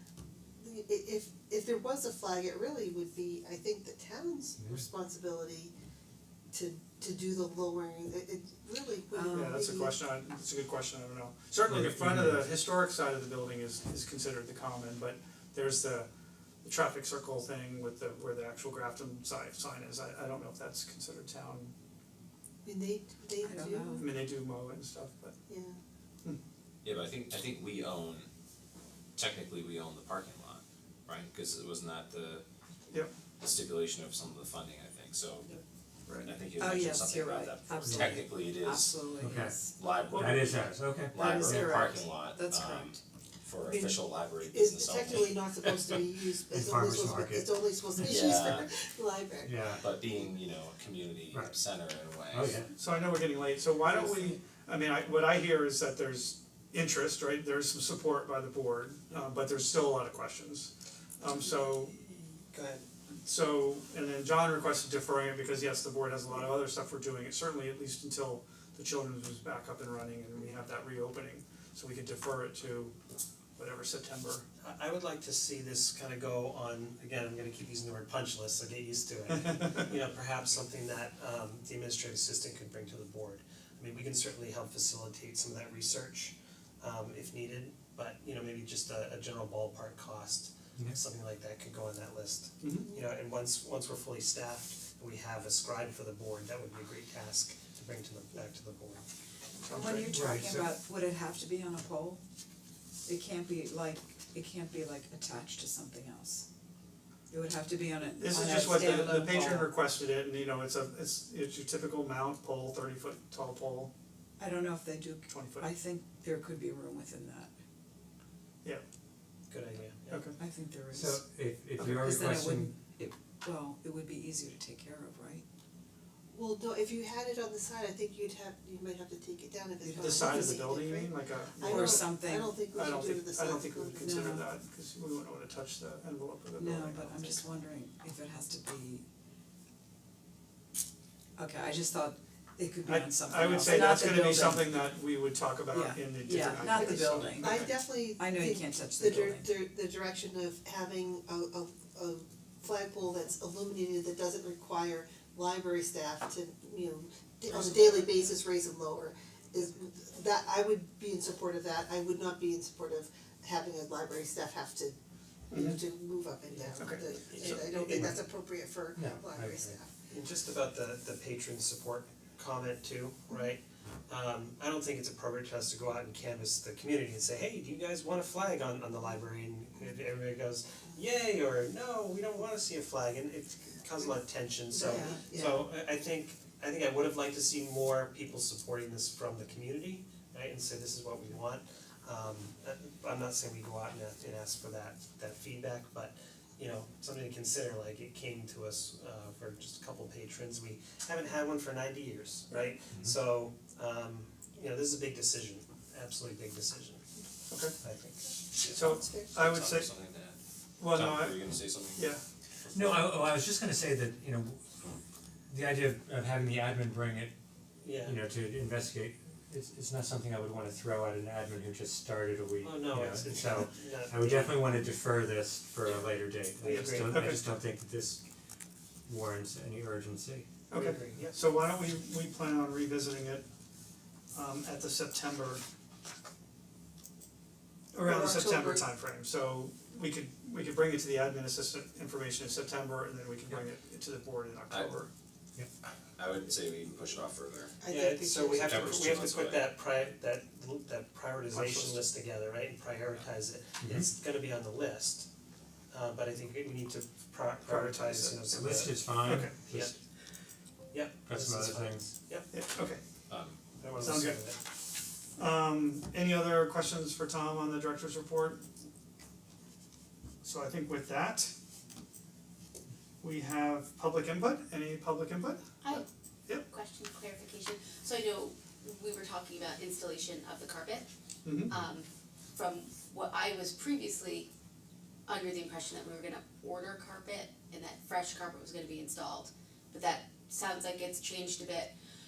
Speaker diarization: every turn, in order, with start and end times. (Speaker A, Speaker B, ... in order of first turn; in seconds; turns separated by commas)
Speaker A: 0.6-5.7, Speaker A: 6.5-9.9, Speaker B: 9.1-9.6, Speaker C: 9.3-16.1, Speaker D: 11.7-12.4, Speaker C: 16.6-21.7, Speaker A: 22.6-24.1, Speaker B: 23.4-24.1, Speaker C: 23.9-25.4, Speaker A: 25.5-25.8, Speaker E: 26.8-28.3, Speaker E: 29.1-32.4, Speaker E: 33.4-35.6, Speaker C: 36.0-36.4, Speaker E: 36.2-39.1, Speaker B: 36.6-39.7, Speaker D: 37.9-38.3, Speaker D: 39.2-39.6, Speaker E: 39.7-45.9, Speaker D: 40.1-41.7, Speaker B: 41.1-43.0, Speaker A: 43.6-49.6, Speaker D: 46.5-47.6, Speaker E: 48.0-48.6, Speaker D: 49.4-49.9, Speaker E: 49.8-52.6, Speaker D: 52.3-52.7, Speaker C: 52.7-62.0, Speaker F: 61.4-62.8, Speaker C: 63.2-72.9, Speaker C: 73.5-74.4, Speaker F: 74.6-99.0, Speaker C: 92.6-93.0, Speaker C: 99.6-100.3, Speaker B: 99.7-102.2, Speaker D: 100.1-100.6, Speaker B: 103.0-106.5, Speaker B: 107.3-109.8, Speaker C: 108.1-113.9, Speaker B: 114.4-117.5, Speaker C: 115.3-115.7, Speaker F: 119.5-120.2, Speaker C: 120.1-120.4, Speaker B: 120.4-121.2, Speaker D: 120.9-122.7, Speaker C: 121.8-122.1, Speaker B: 121.9-125.4, Speaker A: 126.3-134.3, Speaker B: 129.8-130.6, Speaker C: 130.0-132.1, Speaker B: 131.6-132.6, Speaker C: 132.6-137.5, Speaker B: 134.0-134.5, Speaker B: 136.6-139.0, Speaker B: 141.4-145.0, Speaker C: 142.8-147.8, Speaker B: 145.7-149.6, Speaker A: 146.6-164.9, Speaker C: 165.5-165.8, Speaker A: 165.5-169.9, Speaker C: 166.8-167.0, Speaker F: 167.2-168.2, Speaker D: 167.4-168.2, Speaker D: 168.9-169.8, Speaker F: 170.1-207.1, Speaker A: 184.7-185.7, Speaker C: 207.5-207.8, Speaker F: 207.8-208.3, Speaker E: 208.6-212.1, Speaker C: 208.7-209.9, Speaker A: 209.0-209.3, Speaker C: 210.8-212.2, Speaker E: 212.6-213.3, Speaker D: 212.7-214.6, Speaker D: 215.5-217.3, Speaker F: 217.8-218.2, Speaker D: 218.0-228.2, Speaker F: 222.6-224.7, Speaker F: 226.6-227.3, Speaker C: 226.7-227.4, Speaker D: 229.1-230.5, Speaker C: 230.7-233.4, Speaker F: 230.7-231.5, Speaker C: 234.3-235.6, Speaker C: 237.9-245.1, Speaker A: 238.0-238.9, Speaker E: 244.7-244.9, Speaker E: 246.2-247.8, Speaker A: 247.8-248.8, Speaker F: 247.8-255.3, Speaker E: 248.6-249.8, Speaker C: 251.5-252.1, Speaker D: 253.8-254.1, Speaker F: 255.9-259.9, Speaker C: 257.6-258.3, Speaker D: 258.3-259.9, Speaker C: 259.2-259.5, Speaker F: 260.9-262.5, Speaker D: 261.2-262.1, Speaker C: 262.5-263.0, Speaker E: 263.3-263.6, Speaker F: 263.8-264.6, Speaker C: 263.9-264.5, Speaker C: 265.4-268.6, Speaker C: 270.4-271.5, Speaker C: 273.2-276.6, Speaker G: 275.8-276.1, Speaker G: 276.6-281.1, Speaker C: 281.4-281.8, Speaker G: 281.7-284.5, Speaker G: 285.2-291.9